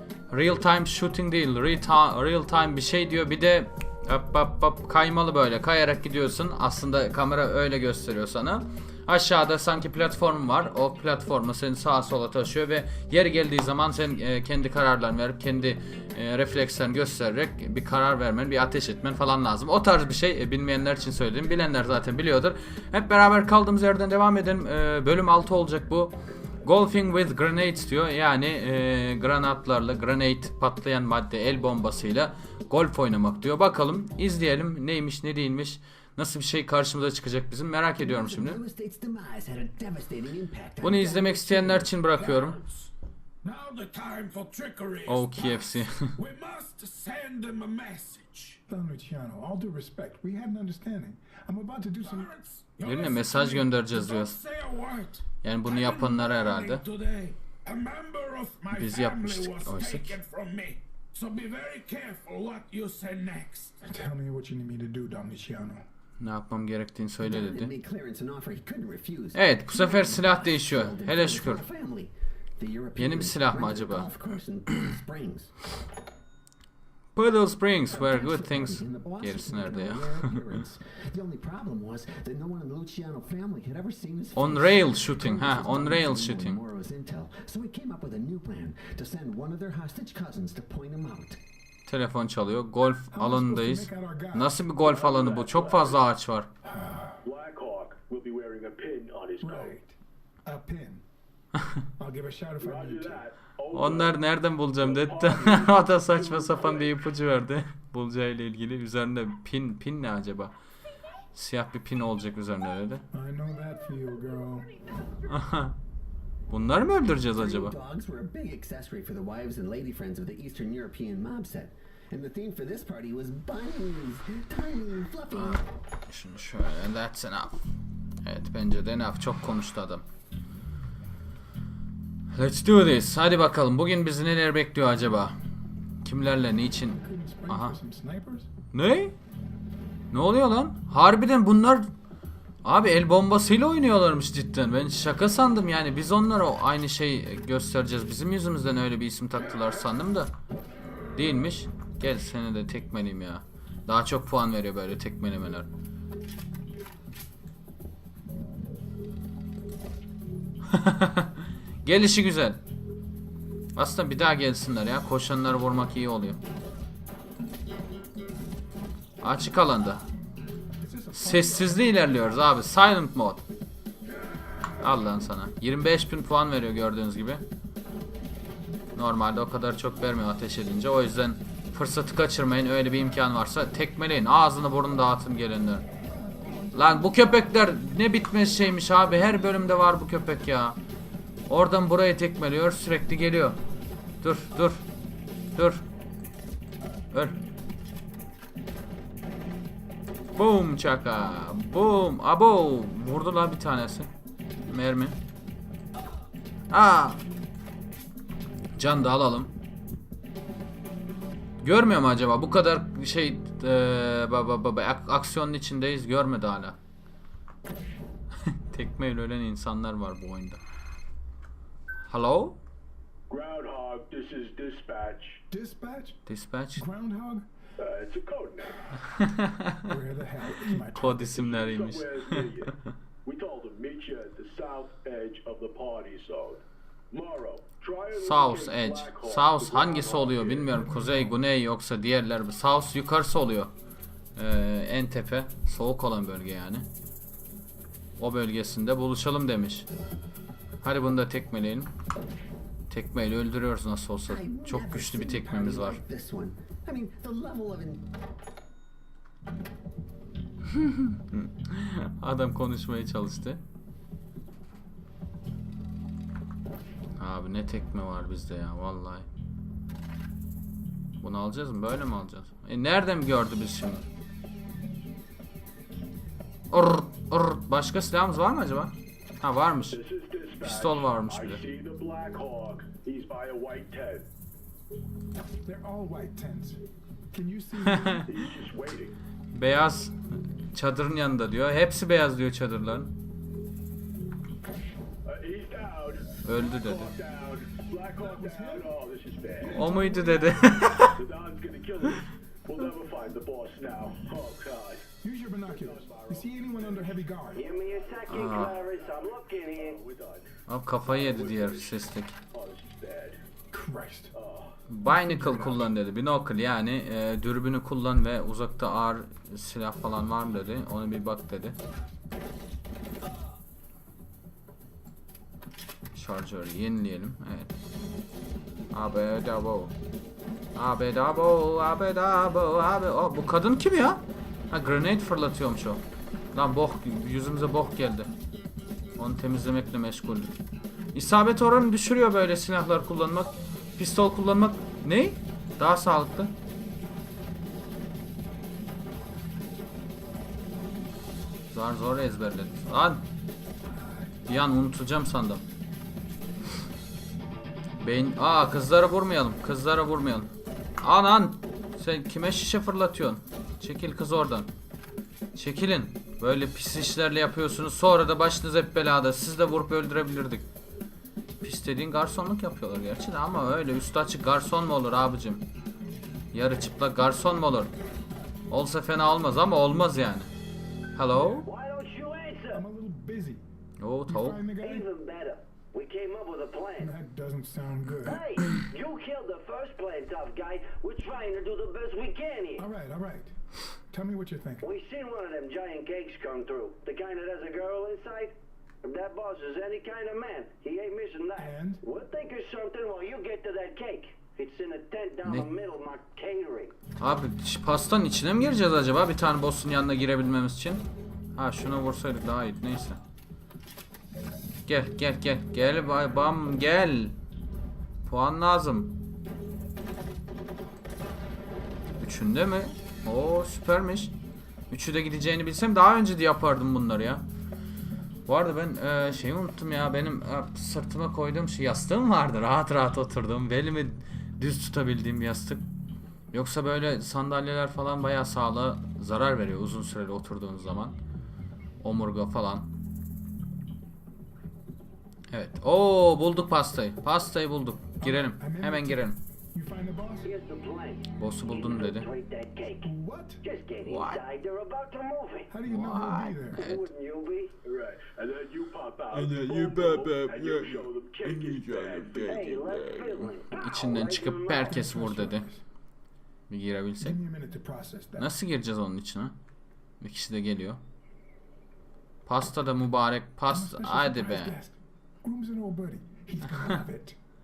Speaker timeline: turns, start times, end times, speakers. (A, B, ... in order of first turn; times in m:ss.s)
0:00.3-0:38.6 A
0:38.0-0:42.0 B
0:40.8-0:42.6 A
0:42.1-0:42.9 C
0:43.4-0:48.6 C
0:45.1-0:46.1 A
0:48.7-0:52.3 D
0:52.0-1:03.8 C
0:52.8-0:54.4 A
0:55.4-0:56.8 A
0:58.7-1:00.2 A
1:03.8-1:05.8 D
1:06.2-1:07.7 A
1:07.2-1:15.5 B
1:09.3-1:11.6 A
1:13.0-1:14.1 A
1:17.2-1:20.4 A
1:17.9-1:31.4 B
1:24.4-1:26.6 A
1:31.9-1:36.5 A
1:33.1-1:34.6 D
1:34.8-1:36.1 E
1:36.6-1:37.2 D
1:37.2-1:39.7 E
1:39.4-1:41.0 D
1:42.0-1:43.2 D
1:42.6-1:44.2 E
1:43.7-1:50.5 A
1:44.8-1:47.0 E
1:51.3-1:53.0 A
1:53.1-1:54.7 D
1:55.3-1:55.8 A
1:56.5-1:57.8 A
1:57.2-2:05.6 B
2:05.3-2:07.6 A
2:08.2-2:10.0 A
2:12.3-2:15.4 A
2:16.0-2:17.8 A
2:16.9-2:18.5 D
2:18.7-2:19.2 A
2:20.1-2:21.9 A
2:22.6-2:30.3 A
2:31.2-2:35.7 A
2:40.7-2:42.6 A
2:43.8-2:46.4 A
2:49.2-2:50.0 A
2:50.8-2:52.6 D
2:51.1-2:53.4 A
2:54.8-2:57.5 A
2:59.0-3:05.9 A
3:06.2-3:07.1 D
3:06.7-3:10.8 A
3:11.5-3:13.6 A
3:14.2-3:14.8 A
3:15.6-3:15.8 A
3:17.1-3:17.4 A
3:20.4-3:24.1 A
3:24.7-3:25.2 A
3:26.7-3:27.2 A
3:28.8-3:29.5 A
3:31.6-3:36.8 A
3:38.4-3:40.6 A
3:42.1-3:42.6 A
3:43.3-3:45.4 E
3:45.5-3:46.2 D
3:46.3-3:46.8 A
3:46.8-3:47.5 D
3:47.8-3:48.9 E
3:49.1-3:49.9 A
3:49.9-3:51.3 D
3:50.6-3:52.5 A
3:51.1-3:52.7 E
3:53.2-4:00.7 E
3:58.2-4:03.7 A
4:00.7-4:01.4 D
4:04.4-4:06.9 A
4:08.2-4:09.9 A
4:10.8-4:11.9 A
4:12.9-4:16.0 A
4:14.2-4:18.0 B
4:20.7-4:23.6 A
4:27.2-4:29.3 A
4:31.2-4:34.1 A
4:36.7-4:40.0 A
4:39.9-4:44.3 E
4:40.6-4:41.6 A
4:45.6-4:46.8 D
4:47.3-4:48.3 D
4:47.8-4:48.3 A
4:48.3-4:49.2 E
4:49.5-4:50.2 A
4:50.7-4:53.1 A
4:55.3-4:59.9 E
4:56.4-4:57.1 A
4:58.2-4:58.9 D
4:59.6-5:00.9 D
4:59.7-5:01.2 A
5:01.1-5:05.1 E
5:05.2-5:07.6 D
5:05.6-5:13.4 E
5:07.6-5:10.0 F
5:08.3-5:08.7 A
5:10.7-5:12.4 A
5:13.7-5:14.3 D
5:14.3-5:14.8 E
5:14.9-5:21.8 A
5:15.1-5:15.9 D
5:26.1-5:27.8 A
5:28.9-5:29.9 A
5:30.8-5:36.0 A
5:36.5-5:38.3 A
5:39.2-5:40.6 A
5:41.1-5:46.5 A
5:51.7-5:53.2 A
5:54.5-5:55.6 A
5:58.0-6:04.7 A
6:05.6-6:10.7 A
6:11.6-6:15.7 A
6:16.5-6:17.9 A
6:18.7-6:20.5 A
6:21.2-6:21.7 A
6:21.3-6:21.6 D
6:21.6-6:22.8 F
6:22.7-6:23.6 D
6:24.0-6:24.6 A
6:24.3-6:25.1 D
6:24.8-6:27.1 F
6:27.0-6:28.5 D
6:28.2-6:32.9 F
6:32.8-6:33.5 D
6:34.1-6:34.9 D
6:34.8-6:46.9 F
6:41.6-6:42.0 D
6:47.2-6:53.2 A
6:54.9-6:57.4 A
6:58.2-6:59.2 A
7:02.2-7:04.3 A
7:04.9-7:07.5 A
7:08.5-7:15.8 A
7:16.5-7:21.2 A
7:22.0-7:22.9 A
7:25.5-7:29.4 A
7:28.2-7:30.6 D
7:30.4-7:35.7 F
7:31.4-7:32.3 A
7:33.0-7:33.6 D
7:34.0-7:34.4 A
7:35.7-7:36.9 D
7:35.8-7:37.1 A
7:36.7-7:37.7 F
7:37.8-7:42.8 E
7:39.3-7:43.6 C
7:42.5-7:45.1 F
7:43.7-7:45.7 A
7:44.9-7:45.8 D
7:46.7-7:47.4 A
7:47.2-7:48.5 D
7:48.4-7:49.5 A
7:50.2-7:51.0 A
7:52.5-7:54.8 A
7:53.7-7:57.4 D